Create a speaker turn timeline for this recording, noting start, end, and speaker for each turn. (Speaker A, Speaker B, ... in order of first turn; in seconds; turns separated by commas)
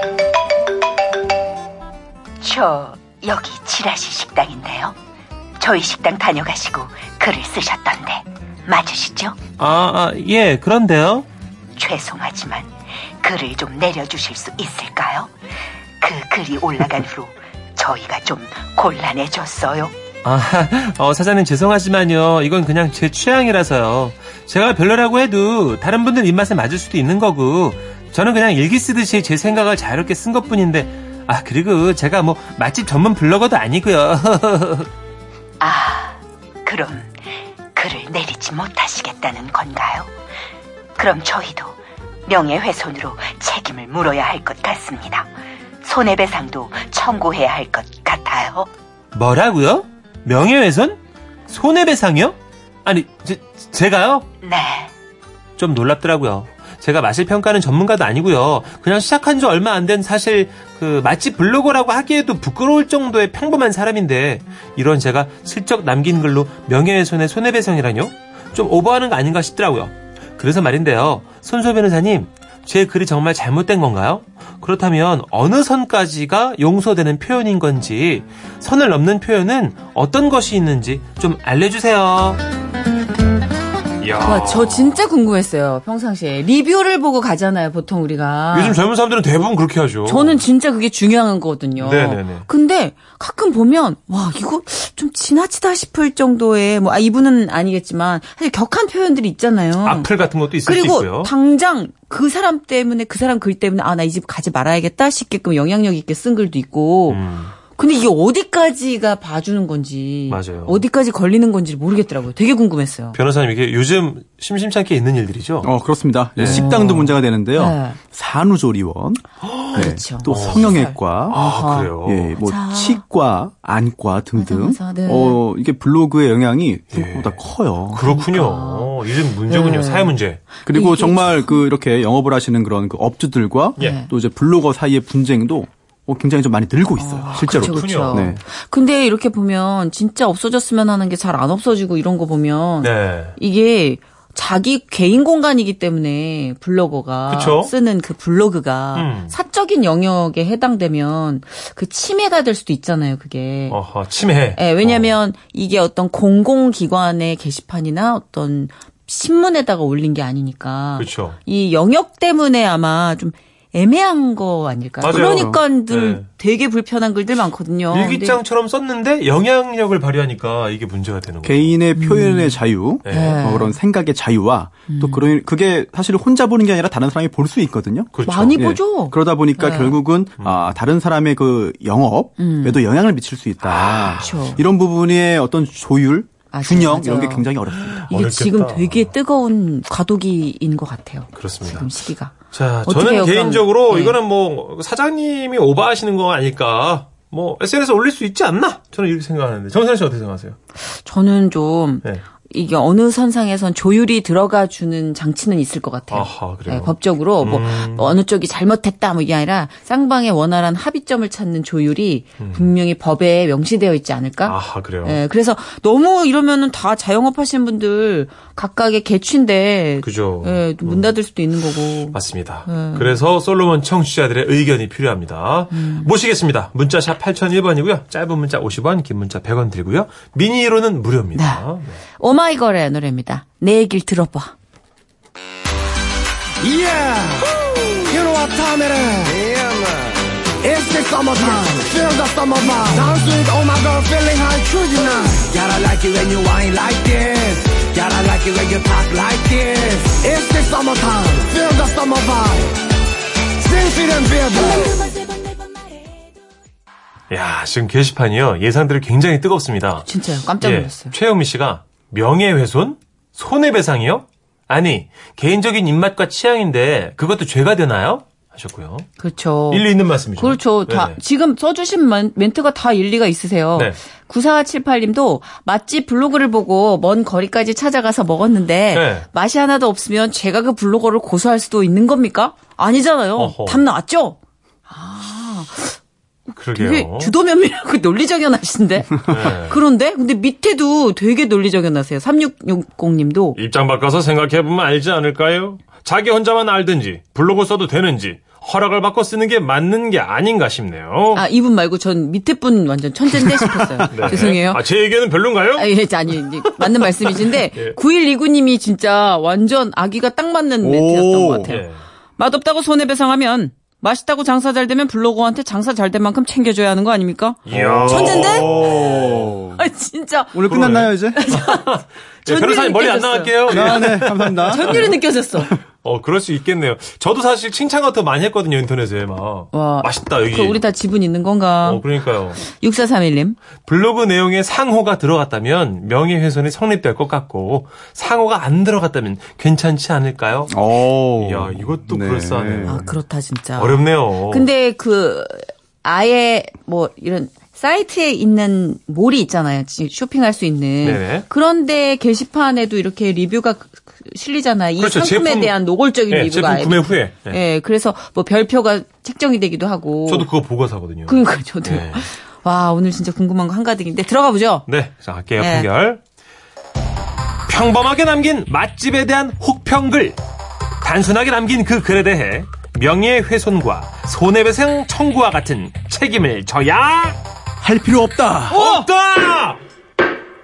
Speaker A: 2.4-5.0, Speaker A: 5.6-9.4, Speaker B: 9.6-11.3, Speaker A: 11.8-15.3, Speaker A: 16.0-19.9, Speaker B: 20.2-34.9, Speaker A: 35.6-37.1, Speaker A: 37.8-40.1, Speaker A: 41.0-45.3, Speaker A: 45.8-48.7, Speaker B: 49.1-54.3, Speaker A: 54.4-54.9, Speaker B: 55.6-82.4, Speaker B: 84.0-85.0, Speaker C: 84.2-88.8, Speaker B: 88.5-90.4, Speaker C: 90.0-100.1, Speaker B: 91.8-92.5, Speaker B: 99.8-101.3, Speaker C: 100.6-107.2, Speaker B: 107.1-107.5, Speaker C: 107.8-113.2, Speaker B: 110.3-110.8, Speaker B: 113.1-115.7, Speaker D: 115.6-121.4, Speaker B: 116.4-116.6, Speaker C: 116.4-118.0, Speaker B: 119.5-120.8, Speaker C: 119.8-123.0, Speaker B: 121.3-122.3, Speaker D: 122.0-128.2, Speaker C: 124.4-125.4, Speaker B: 126.9-127.4, Speaker B: 127.9-130.4, Speaker C: 128.1-129.0, Speaker C: 129.5-131.6, Speaker D: 130.7-138.4, Speaker C: 133.8-134.1, Speaker C: 137.0-153.8, Speaker B: 137.3-138.4, Speaker B: 142.8-143.3, Speaker B: 147.3-147.7, Speaker B: 148.9-149.3, Speaker B: 153.7-155.2, Speaker C: 154.6-168.4, Speaker B: 161.0-161.4, Speaker B: 165.0-166.2, Speaker D: 165.0-165.6, Speaker B: 167.9-171.8, Speaker D: 171.4-188.1, Speaker C: 171.9-173.8, Speaker B: 173.0-173.4, Speaker C: 174.9-175.3, Speaker B: 178.1-178.8, Speaker C: 178.3-180.0, Speaker C: 182.4-182.8, Speaker B: 183.7-184.2, Speaker C: 184.1-184.6, Speaker C: 186.5-187.5, Speaker B: 187.8-189.1, Speaker C: 188.1-194.2, Speaker B: 191.3-191.9, Speaker B: 192.5-200.6, Speaker C: 200.8-223.2, Speaker B: 206.1-208.2, Speaker B: 212.4-212.7, Speaker B: 214.4-215.2, Speaker B: 220.0-221.1, Speaker B: 222.1-232.0, Speaker C: 225.7-226.1, Speaker C: 231.3-231.6, Speaker C: 232.2-234.5, Speaker E: 236.6-252.9, Speaker E: 253.6-255.0, Speaker B: 257.3-269.1, Speaker C: 260.1-261.1, Speaker C: 269.2-269.9, Speaker B: 269.7-271.2, Speaker C: 270.4-284.4, Speaker B: 278.9-279.3, Speaker B: 283.4-283.8, Speaker C: 284.9-286.0, Speaker B: 286.6-287.3, Speaker C: 286.7-293.6, Speaker B: 289.3-289.8, Speaker B: 293.6-301.4, Speaker C: 301.3-304.8, Speaker B: 304.1-308.0, Speaker C: 305.8-311.8, Speaker D: 310.8-311.8, Speaker B: 311.6-312.0, Speaker C: 312.4-318.7, Speaker B: 317.6-319.6, Speaker D: 317.7-319.9, Speaker C: 319.8-325.8, Speaker D: 320.5-321.4, Speaker B: 320.7-325.2, Speaker D: 323.7-325.1, Speaker B: 326.0-330.8, Speaker C: 329.7-332.1, Speaker B: 331.8-332.6, Speaker C: 332.6-333.6, Speaker B: 333.9-340.8, Speaker D: 340.7-343.1, Speaker B: 341.4-343.1, Speaker C: 342.9-360.5, Speaker B: 343.8-344.7, Speaker B: 351.0-351.5, Speaker B: 355.0-355.8, Speaker B: 356.3-357.6, Speaker B: 360.3-362.3, Speaker C: 361.3-364.9, Speaker B: 364.9-366.2, Speaker C: 365.6-365.9, Speaker B: 367.7-370.4, Speaker B: 371.0-377.4, Speaker D: 377.8-379.0, Speaker B: 378.7-379.8